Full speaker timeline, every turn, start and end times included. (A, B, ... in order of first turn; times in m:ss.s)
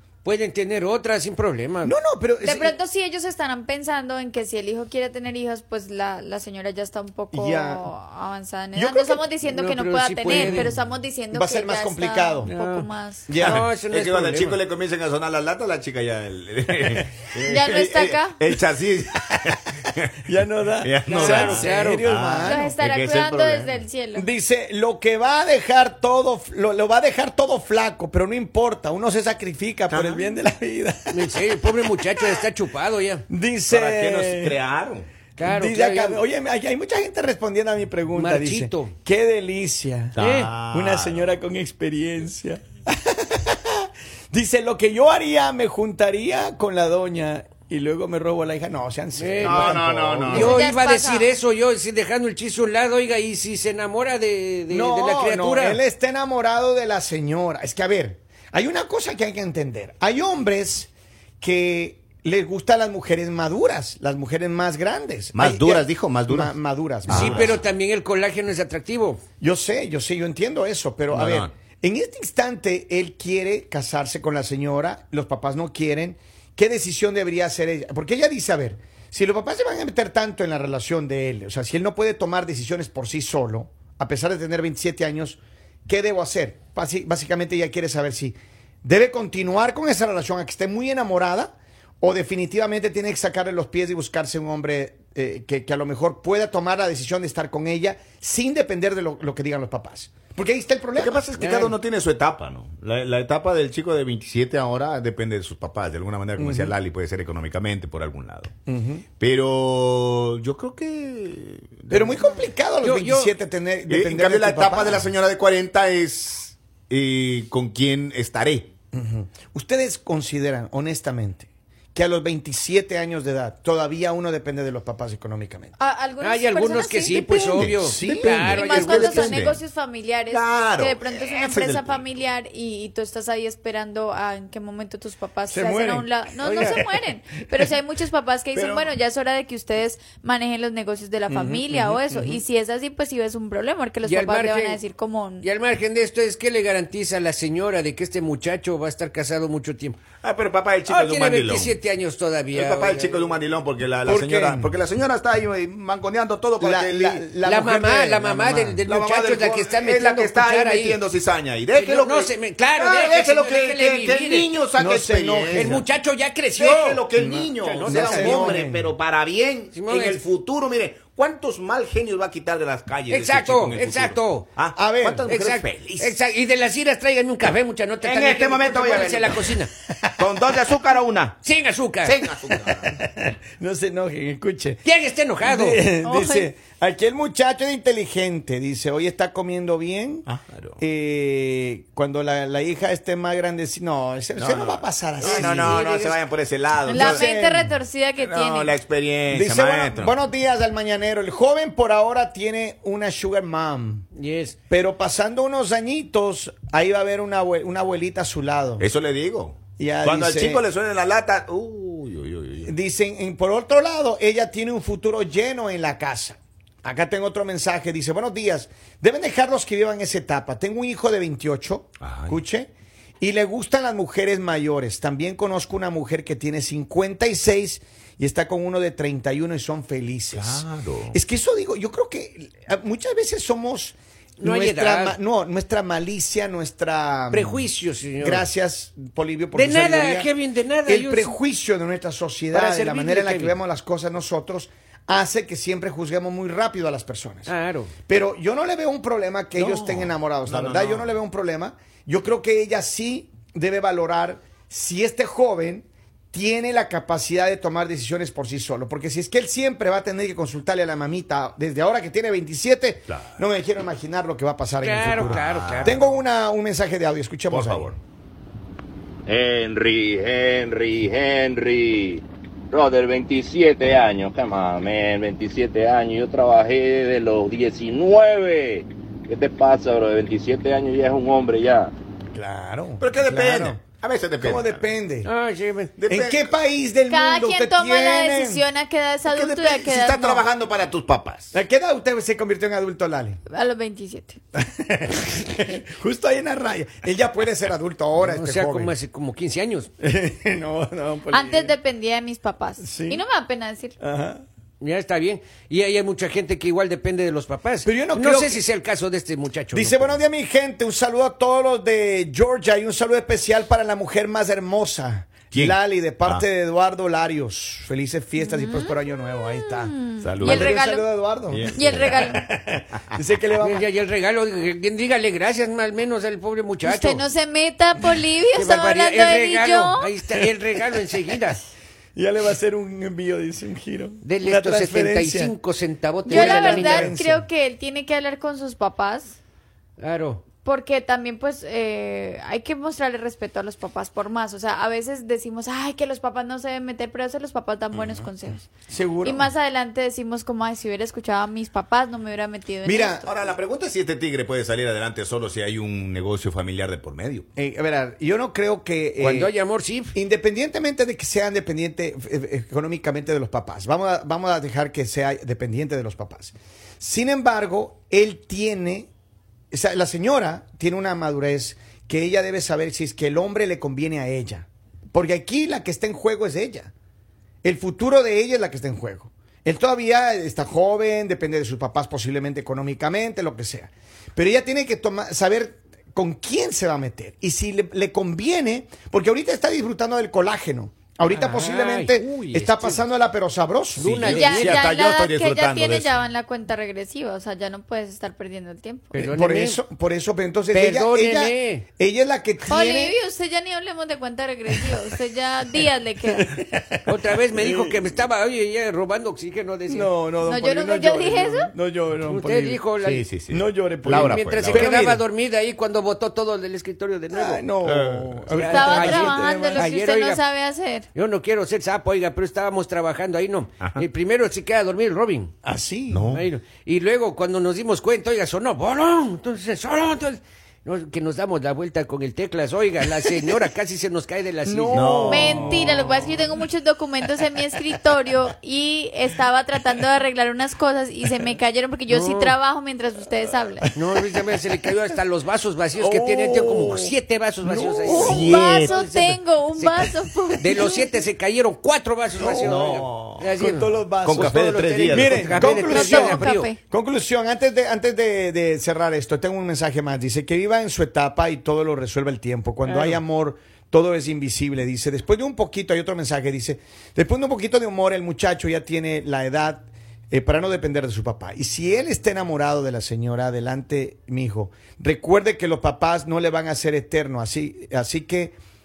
0:00.2-0:01.9 A
0:01.8-0:02.7 B
0:02.4-0:13.3 C
0:07.3-0:07.9 B
0:08.7-0:09.3 B
0:09.5-0:10.7 A
0:10.3-0:10.8 B
0:11.3-0:12.5 B
0:12.4-0:14.6 A
0:13.3-0:13.6 B
0:13.4-0:20.1 D
0:17.4-0:18.4 C
0:20.2-0:22.7 B
0:20.8-0:23.8 D
0:21.1-0:22.1 A
0:22.4-0:24.3 C
0:24.1-0:32.4 B
0:31.1-0:33.2 A
0:33.3-0:34.6 B
0:33.7-0:35.1 D
0:35.4-0:36.2 A
0:35.4-0:40.2 B
0:38.1-0:38.9 A
0:40.1-0:41.3 D
0:40.2-0:40.5 A
0:40.7-0:50.6 B
0:49.2-0:49.8 A
0:49.4-0:50.5 D
0:50.3-0:55.8 A
0:50.3-0:51.3 C
0:54.7-1:07.6 B
1:05.3-1:06.5 D
1:07.1-1:07.5 D
1:07.1-1:09.2 A
1:09.4-1:41.7 B
1:11.1-1:11.5 D
1:41.0-1:48.5 D
1:41.4-1:41.7 A
1:46.4-1:46.7 B
1:48.7-1:49.0 B
1:49.2-1:52.4 D
1:51.9-1:55.1 B
1:52.8-1:53.3 A
1:53.9-1:58.7 D
1:58.9-2:05.7 B
2:05.8-2:07.5 C
2:06.2-2:09.5 A
2:07.5-2:09.0 B
2:07.5-2:09.6 D
2:08.5-2:25.5 C
2:10.3-2:12.1 D
2:15.5-2:17.7 B
2:16.4-2:16.8 A
2:18.5-2:18.9 D
2:21.3-2:22.4 B
2:24.0-2:24.8 A
2:25.4-2:30.0 A
2:30.2-2:31.8 D
2:30.9-2:33.4 A
2:32.5-2:37.3 D
2:34.0-2:34.7 B
2:36.6-2:38.8 B
2:37.4-2:41.0 A
2:38.8-2:45.8 D
2:41.7-2:44.5 A
2:44.8-2:45.8 B
2:45.5-2:47.0 A
2:46.5-2:56.1 D
2:47.1-2:48.9 B
2:47.6-2:48.6 A
2:49.7-2:50.2 A
2:53.1-2:54.4 A
2:54.7-2:55.3 B
2:55.3-2:59.7 A
2:58.0-2:59.6 D
3:00.0-3:00.3 B
3:00.2-3:01.4 D
3:01.4-3:02.1 A
3:02.0-3:03.0 D
3:02.5-3:04.8 B
3:04.8-3:05.8 A
3:05.4-3:10.2 B
3:06.0-3:06.5 C
3:10.2-3:10.8 D
3:10.8-3:15.8 B
3:14.4-3:17.3 D
3:15.2-3:16.2 A
3:16.9-3:17.7 B
3:16.9-3:18.7 C
3:18.2-3:20.1 D
3:19.3-3:24.0 B
3:24.2-3:24.6 A
3:24.7-3:28.8 B
3:28.8-3:32.7 D
3:29.8-3:30.6 B
3:32.6-3:42.7 B
3:42.0-3:42.4 D
3:43.2-3:57.7 B
3:50.3-3:51.2 D
3:54.4-3:55.2 A
3:57.3-3:58.4 A
3:58.2-4:00.3 B
3:59.5-4:01.3 A
4:00.8-4:07.5 B
4:02.5-4:03.6 A
4:07.4-4:07.9 A
4:08.1-4:27.9 B
4:09.5-4:11.1 D
4:23.1-4:23.4 D
4:24.8-4:26.0 A
4:25.0-4:26.0 D
4:27.5-4:28.0 D
4:29.3-4:41.9 E
4:42.3-4:43.8 B
4:43.0-4:44.8 D
4:44.4-4:45.3 B
4:45.2-4:45.9 A
4:46.0-4:46.5 D
4:46.1-4:48.6 B
4:47.1-4:50.4 C
4:49.3-4:51.5 D
4:51.5-4:53.4 B
4:53.5-4:54.4 C
4:54.6-4:58.9 B
4:58.2-4:59.9 A
5:00.0-5:01.7 B
5:01.3-5:04.0 C
5:02.8-5:03.2 B
5:04.0-5:04.4 B
5:04.8-5:10.2 A
5:07.8-5:08.6 B
5:09.7-5:23.9 B
5:15.5-5:16.4 D
5:18.4-5:21.1 C
5:20.2-5:20.7 D
5:21.5-5:22.4 D
5:21.7-5:22.4 C
5:23.6-5:27.2 A
5:26.8-5:30.1 C
5:28.5-5:31.6 A
5:32.2-5:35.5 B
5:34.2-5:37.2 A
5:36.2-5:37.4 B
5:36.3-5:39.4 C
5:40.0-5:40.5 A
5:40.5-5:48.7 C
5:48.9-5:49.5 B
5:49.2-5:53.3 C
5:52.8-5:53.2 B
5:53.2-5:57.4 D
5:57.6-5:59.5 B
5:59.2-6:00.1 A
6:00.1-6:09.1 B
6:09.7-6:16.9 B
6:17.6-6:34.4 B
6:31.2-6:33.0 A
6:33.9-6:34.8 A
6:34.0-6:36.2 D
6:34.3-6:39.3 C
6:39.1-6:39.8 A
6:39.3-6:43.2 B
6:40.7-6:41.8 A
6:42.6-6:46.4 C
6:46.2-6:48.0 B
6:47.1-6:50.1 A
6:49.9-6:52.8 B
6:50.4-6:51.7 C
6:52.2-6:53.2 A
6:53.0-6:55.0 D
6:53.5-6:55.2 B
6:54.0-6:57.6 A
6:57.3-6:59.9 B
6:57.8-6:58.7 D
6:58.5-7:00.4 A
6:58.7-7:01.1 C
7:01.1-7:05.5 A
7:05.6-7:06.3 B
7:06.1-7:06.4 D
7:06.3-7:15.2 A
7:14.6-7:16.2 B
7:14.9-7:15.9 D
7:15.3-7:23.9 C
7:22.1-7:22.6 A
7:23.8-7:24.2 B
7:23.9-7:36.7 A
7:26.0-7:28.6 B
7:28.1-7:31.1 C
7:28.1-7:29.0 D
7:32.4-7:58.6 B
7:32.4-7:33.5 D
7:34.2-7:35.9 D
7:35.9-7:36.8 C
7:42.8-7:43.2 A